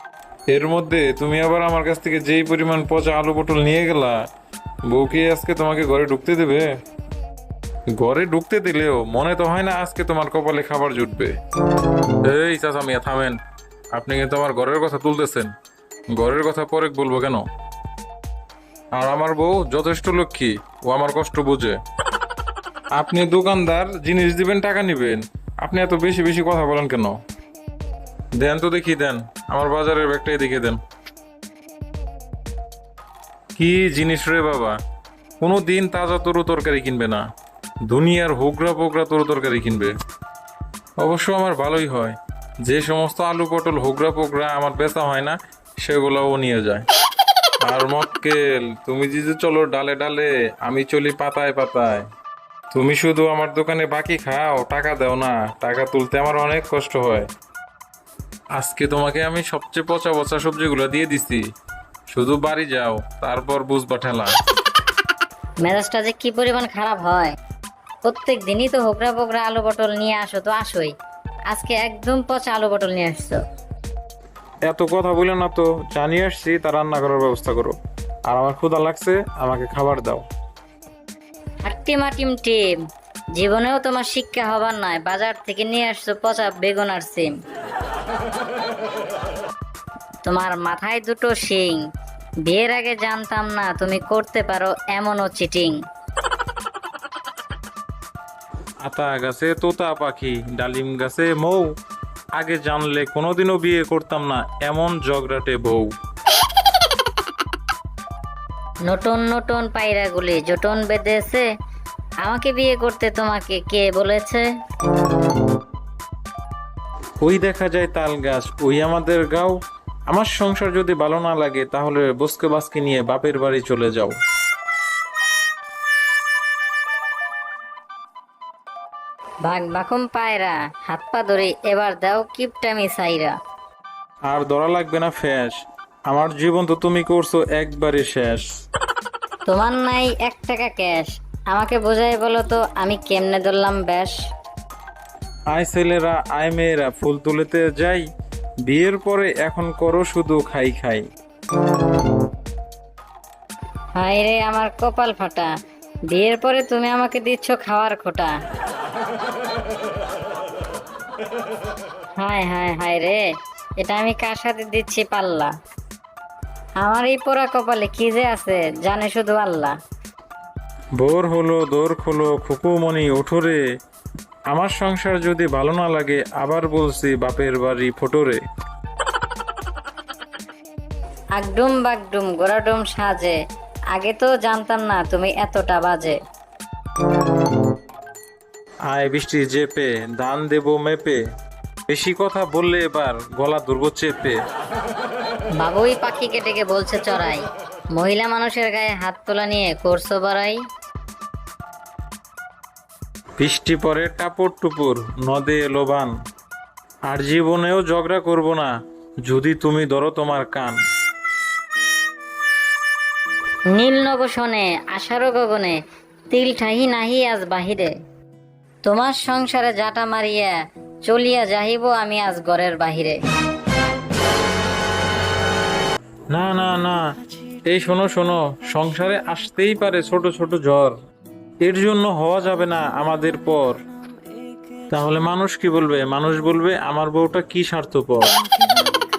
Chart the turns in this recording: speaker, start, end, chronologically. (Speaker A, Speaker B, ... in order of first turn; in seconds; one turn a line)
Speaker A: 0.5-4.2
Speaker A: 4.9-6.7
Speaker A: 7.9-11.3
Speaker A: 12.2-13.4
Speaker A: 13.9-15.5
Speaker A: 16.1-17.4
Speaker A: 19.0-21.8
Speaker A: 23.0-27.2
Speaker A: 28.4-30.8
Speaker A: 33.5-34.8
Speaker A: 35.4-37.3
Speaker A: 37.9-40.0
Speaker A: 41.0-46.9
Speaker A: 47.6-52.1
Speaker A: 52.7-57.3
Speaker A: 58.6-61.5
Speaker A: 62.1-64.3
Speaker B: 65.6-67.3
Speaker B: 68.0-70.9
Speaker B: 71.5-73.4
Speaker A: 74.7-77.8
Speaker A: 78.3-80.3
Speaker B: 81.7-82.8
Speaker B: 83.4-87.3
Speaker B: 90.2-91.8
Speaker B: 92.5-95.8
Speaker A: 98.8-101.7
Speaker A: 102.3-105.9
Speaker B: 108.9-111.5
Speaker B: 112.2-114.5
Speaker A: 117.2-119.6
Speaker A: 120.1-124.2
Speaker B: 129.5-133.3
Speaker A: 134.3-138.5
Speaker B: 139.5-144.2
Speaker A: 145.5-148.1
Speaker A: 148.7-151.1
Speaker B: 154.0-155.5
Speaker B: 156.1-158.3
Speaker B: 162.2-163.2
Speaker B: 163.8-165.5
Speaker B: 166.8-169.7
Speaker A: 171.0-173.6
Speaker A: 174.5-178.4
Speaker B: 181.4-183.4
Speaker B: 183.9-186.2
Speaker A: 188.9-191.2
Speaker A: 191.9-194.4
Speaker B: 195.6-197.4
Speaker B: 198.0-200.6
Speaker A: 203.4-206.1
Speaker A: 207.1-208.7
Speaker A: 209.2-210.8
Speaker B: 213.7-215.8
Speaker B: 216.3-217.9
Speaker B: 218.8-220.5
Speaker B: 221.1-223.2
Speaker A: 226.3-227.1
Speaker A: 227.7-230.9
Speaker A: 231.6-233.8
Speaker A: 234.9-238.3